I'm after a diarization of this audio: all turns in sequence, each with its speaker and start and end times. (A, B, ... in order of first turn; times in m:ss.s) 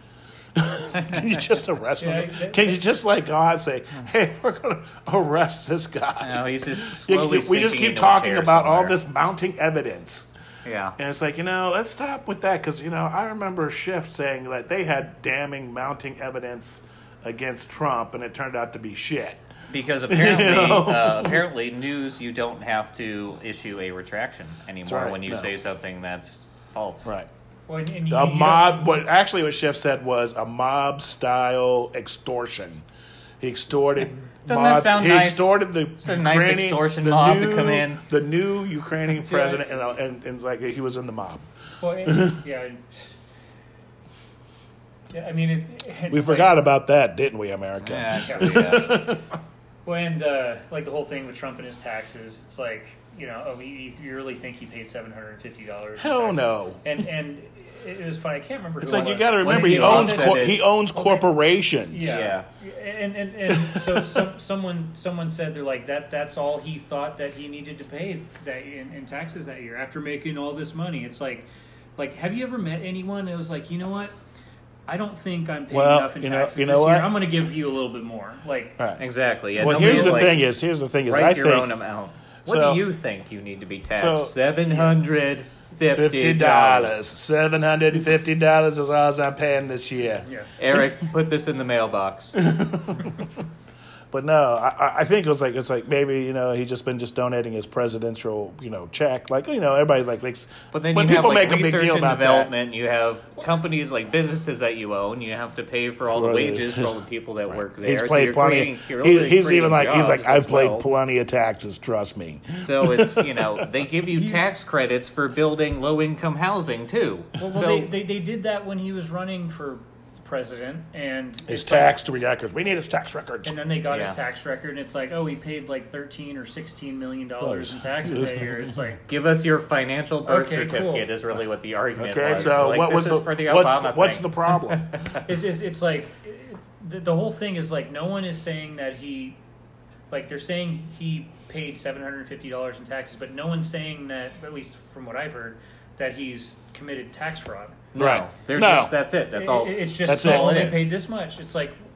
0:00.5-0:10.3 A
0:02.0-0:02.8 B
0:06.2-0:09.0 C
0:10.6-0:11.0 C
0:11.0-0:19.4 A
0:19.7-0:27.1 C
0:20.1-0:21.4 A
0:24.8-0:25.5 A
0:27.7-0:28.9 B
0:28.1-0:32.8 A
0:33.4-0:41.4 A
0:34.4-0:35.5 C
0:36.0-0:38.0 C
0:39.2-0:39.7 C
0:41.8-0:43.1 B
0:42.0-0:42.4 A
0:45.1-0:46.6 B
0:46.1-0:49.2 A
0:47.8-0:49.1 C
0:48.2-0:48.8 B
0:49.8-1:01.3 B
0:56.0-0:56.8 A
0:58.8-1:02.1 A
0:59.4-1:00.6 C
1:01.9-1:11.4 B
1:02.0-1:02.5 C
1:03.5-1:04.3 A
1:12.0-1:14.1 B
1:14.9-1:18.8 B
1:15.7-1:17.1 A
1:19.0-1:20.4 C
1:19.6-1:21.7 A
1:19.6-1:20.3 B
1:21.1-1:27.0 C
1:22.4-1:22.8 A
1:23.9-1:24.3 A
1:24.7-1:25.0 B
1:25.9-1:30.2 A
1:30.2-1:30.5 B
1:30.6-1:32.4 C
1:32.4-1:33.2 A
1:34.1-1:42.5 A
1:40.7-1:50.8 C
1:46.1-1:46.9 A
1:47.6-1:53.7 A
1:52.6-1:57.9 C
1:54.1-1:54.5 B
1:57.4-2:02.0 B
2:01.5-2:03.6 A
2:03.4-2:09.0 B
2:03.9-2:04.2 C
2:07.4-2:08.8 A
2:09.1-2:15.2 C
2:10.2-2:11.1 B
2:12.0-2:14.9 A
2:15.2-2:19.4 B
2:20.1-2:27.8 B
2:27.9-2:30.9 C
2:28.0-2:28.9 A
2:29.3-2:31.8 B
2:30.0-2:30.8 A